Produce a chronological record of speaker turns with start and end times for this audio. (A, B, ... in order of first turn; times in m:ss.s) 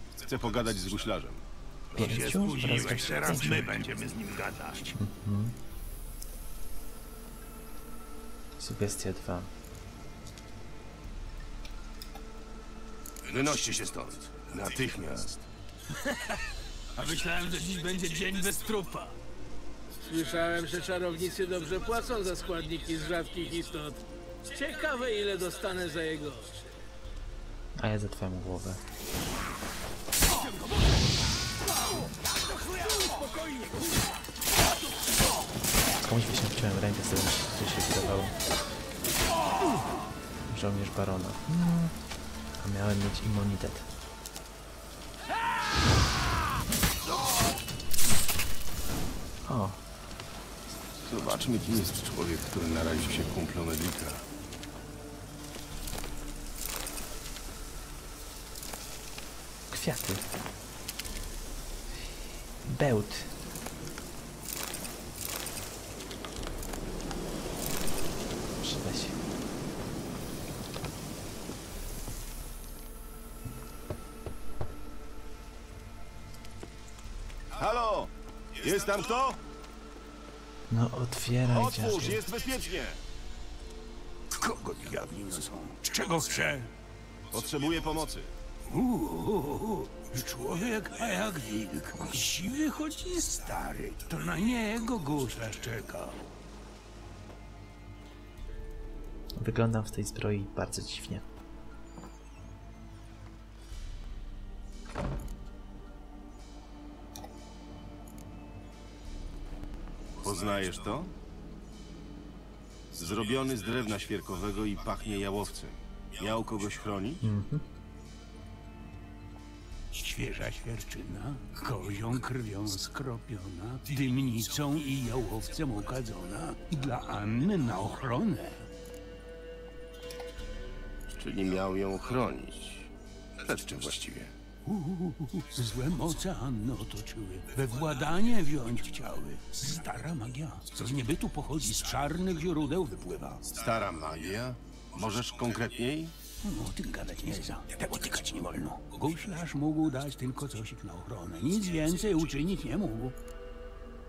0:00.2-0:01.4 A
0:01.9-0:05.0 B
0:02.0-0:03.7 C
0:05.0-0:05.6 C
0:08.6-0:09.5 C
0:13.2-0:15.5 A
0:17.0-0:19.2 B
0:20.0-0:23.9 D
0:24.6-0:26.4 D
0:27.8-0:28.8 C
0:30.3-0:31.1 B
0:31.7-0:35.2 B
0:36.0-0:38.3 C
0:40.5-0:42.0 C
0:42.6-0:43.9 C
0:49.4-0:49.8 C
0:51.0-0:54.2 A
0:59.7-1:00.3 C
1:02.6-1:03.4 C
1:08.6-1:09.2 C
1:17.5-1:19.4 A
1:20.7-1:22.2 C
1:21.5-1:23.0 A
1:24.3-1:26.7 B
1:27.3-1:28.3 A
1:28.7-1:36.2 B
1:39.4-1:41.2 C
1:50.2-1:51.1 A
1:52.9-1:57.2 A
1:57.2-1:57.6 C
1:59.9-2:08.7 B
2:11.1-2:12.9 A
2:13.4-2:14.3 A
2:14.6-2:23.4 B
2:23.5-2:26.1 A
2:26.4-2:33.2 B